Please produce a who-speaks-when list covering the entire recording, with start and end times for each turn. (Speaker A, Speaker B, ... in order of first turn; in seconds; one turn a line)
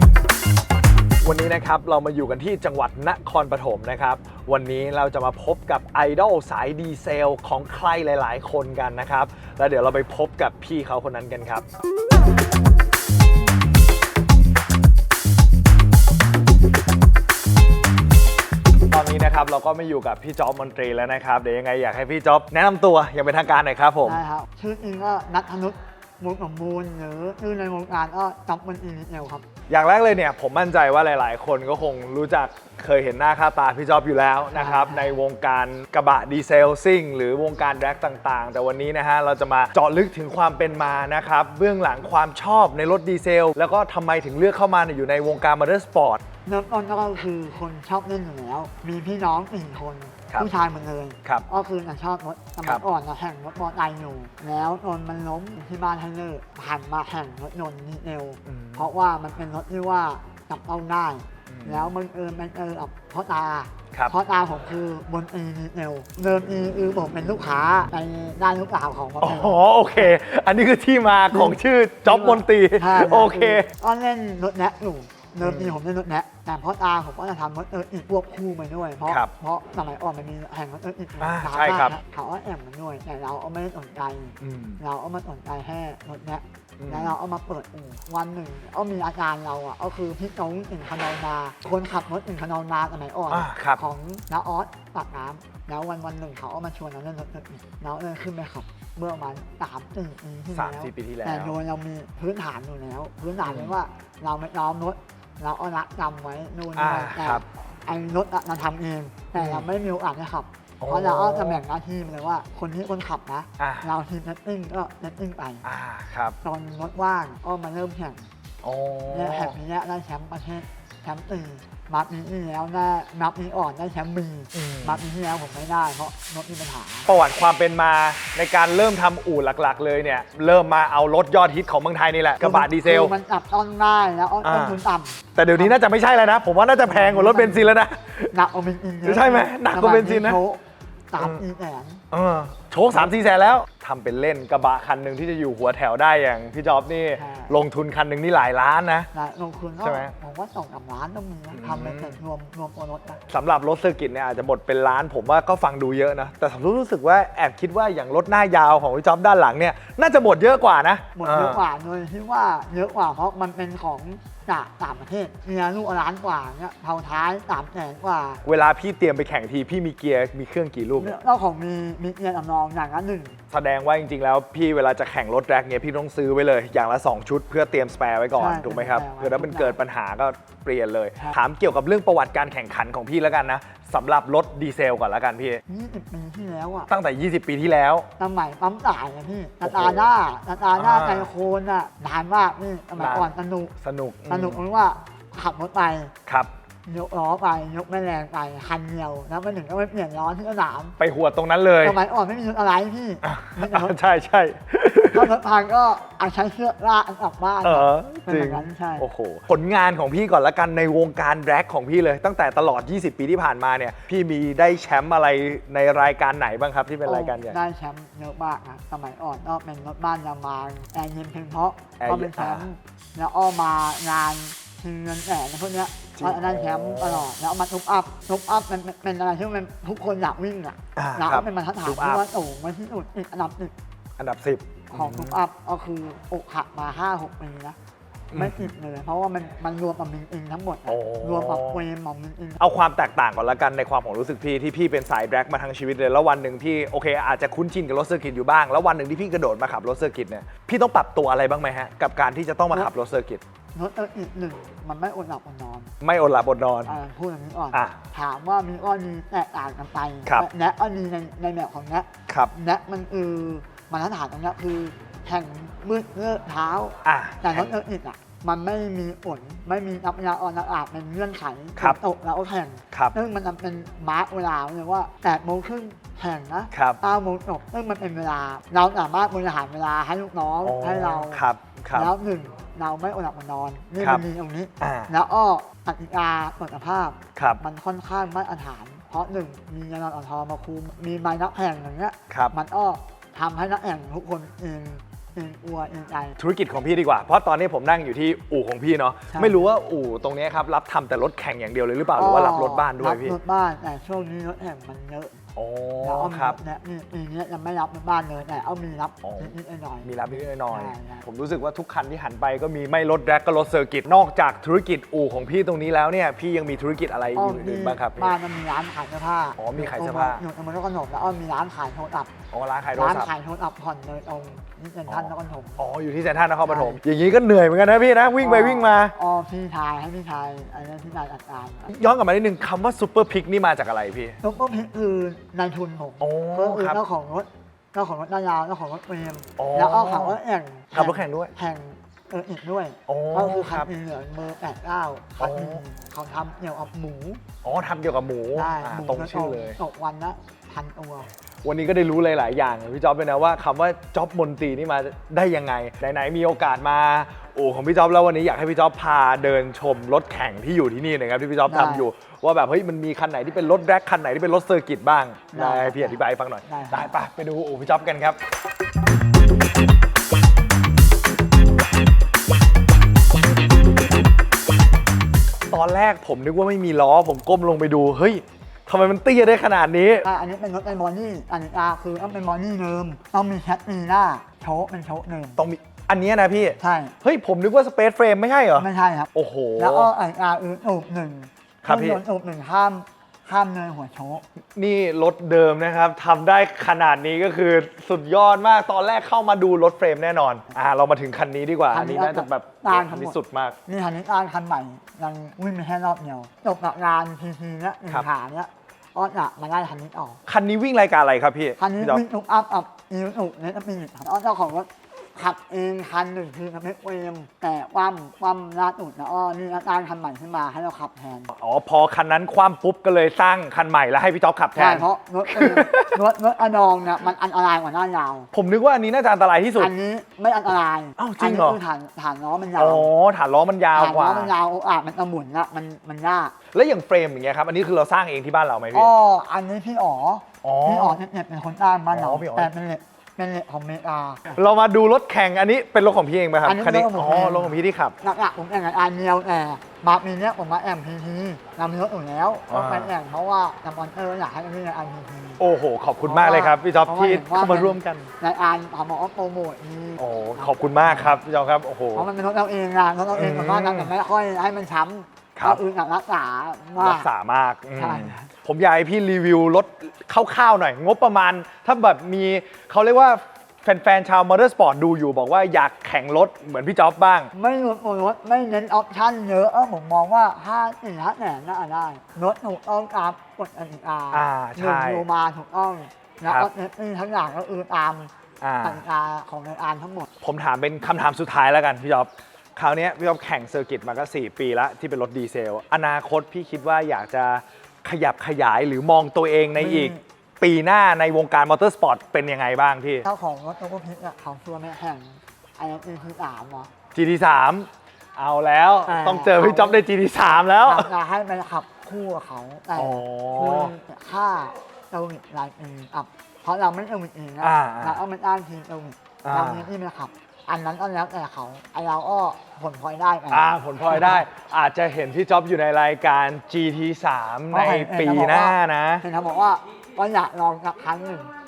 Speaker A: 1.2-11.6
Speaker A: 18.9-24.2
Speaker B: 24.1-29.4
Speaker A: 29.7-46.2
Speaker B: 34.5-35.2
Speaker B: 46.5-70.1
Speaker A: 58.4-58.9
Speaker A: 61.5-61.9
Speaker A: 69.2-73.7
Speaker B: 71.3-115.6
Speaker A: 75.4-75.8
Speaker A: 81.2-82.0
Speaker A: 84.4-84.8
Speaker A: 86.8-87.2
Speaker A: 93.3-93.8
Speaker A: 100.5-101.5
Speaker A: 103.4-103.7
Speaker A: 106.8-107.4
Speaker A: 109.3-109.7
Speaker A: 110.8-111.6
Speaker A: 113.6-113.9
Speaker A: 115.6-116.4
Speaker B: 116.4-118.3
Speaker A: 118.6-119.6
Speaker B: 119.1-127.1
Speaker A: 124.5-125.0
Speaker A: 127.1-133.2
Speaker B: 132.4-135.8
Speaker A: 134.4-134.8
Speaker A: 135.4-138.3
Speaker B: 136.8-137.8
Speaker B: 138.3-142.0
Speaker A: 139.1-140.4
Speaker A: 142.1-149.1
Speaker B: 147.2-147.6
Speaker B: 149.1-153.2
Speaker A: 149.8-150.1
Speaker A: 151.5-152.2
Speaker A: 153.3-161.7
Speaker B: 161.1-168.4
Speaker A: 168.4-171.1
Speaker B: 171.0-173.4
Speaker A: 173.5-185.6
Speaker B: 178.4-179.8
Speaker B: 185.7-186.9
Speaker A: 186.9-188.1
Speaker B: 188.2-193.7
Speaker A: 189.6-190.1
Speaker A: 190.7-191.3
Speaker A: 193.0-193.3
Speaker A: 193.8-194.6
Speaker B: 194.3-196.1
Speaker B: 196.9-201.0
Speaker A: 201.0-202.0
Speaker B: 201.8-204.0
Speaker A: 203.2-205.3
Speaker B: 205.1-209.1
Speaker A: 207.6-217.6
Speaker B: 217.1-233.7
Speaker A: 222.0-222.7
Speaker A: 226.2-227.3
Speaker A: 231.0-232.2
Speaker A: 234.2-235.4
Speaker B: 234.9-237.8
Speaker A: 238.3-238.7
Speaker B: 238.3-242.6
Speaker A: 240.9-241.8
Speaker A: 242.6-253.4
Speaker B: 253.8-255.9
Speaker A: 256.0-257.0
Speaker B: 256.9-296.4
Speaker A: 257.7-258.0
Speaker A: 267.1-267.7
Speaker A: 276.7-277.0
Speaker A: 280.6-282.1
Speaker A: 284.8-285.1
Speaker A: 287.4-287.6
Speaker A: 296.4-303.4
Speaker B: 299.3-299.6
Speaker B: 302.2-305.4
Speaker A: 305.6-306.6
Speaker B: 306.0-311.2
Speaker A: 309.2-309.5
Speaker A: 310.0-318.4
Speaker B: 317.4-322.3
Speaker A: 319.6-320.4
Speaker A: 322.5-323.3
Speaker B: 323.0-325.8
Speaker A: 325.1-329.2
Speaker B: 326.7-327.0
Speaker B: 328.4-331.9
Speaker A: 331.9-334.4
Speaker B: 334.4-347.4
Speaker A: 336.2-337.0
Speaker A: 339.6-340.4
Speaker A: 340.9-341.5
Speaker A: 343.1-343.9
Speaker A: 345.4-345.8
Speaker A: 347.6-349.8
Speaker B: 348.6-351.3
Speaker A: 351.6-368.4
Speaker B: 361.7-362.1
Speaker B: 365.5-367.1
Speaker A: 375.7-380.3
Speaker B: 380.2-385.6
Speaker A: 385.6-390.1
Speaker B: 386.8-387.1
Speaker B: 388.8-394.4
Speaker A: 391.8-392.2
Speaker A: 394.8-403.8
Speaker B: 401.9-410.4
Speaker A: 410.5-412.2
Speaker B: 411.8-421.5
Speaker A: 421.5-426.2
Speaker B: 424.8-428.5
Speaker A: 428.5-429.9
Speaker B: 429.8-433.1
Speaker A: 431.2-431.8
Speaker A: 432.8-434.5
Speaker B: 433.9-436.5
Speaker A: 436.7-439.1
Speaker B: 438.9-444.5
Speaker A: 440.6-441.2
Speaker A: 442.1-442.7
Speaker A: 444.5-448.1
Speaker B: 446.6-455.6
Speaker A: 452.7-453.1
Speaker A: 455.6-458.3
Speaker B: 456.2-461.4
Speaker A: 460.2-462.3
Speaker B: 462.1-467.3
Speaker A: 463.3-464.1
Speaker A: 465.6-465.8
Speaker A: 467.0-477.5
Speaker B: 468.0-468.5
Speaker B: 477.5-488.3
Speaker A: 484.3-485.2
Speaker A: 486.4-486.7
Speaker A: 488.6-489.0
Speaker B: 488.8-490.3
Speaker A: 490.4-503.2
Speaker B: 499.8-500.2
Speaker B: 503.2-506.9
Speaker A: 507.1-511.1
Speaker B: 509.1-510.0
Speaker B: 510.7-524.5
Speaker A: 513.0-513.9
Speaker A: 517.6-518.2
Speaker A: 519.4-519.9
Speaker A: 523.5-529.2
Speaker B: 527.7-531.5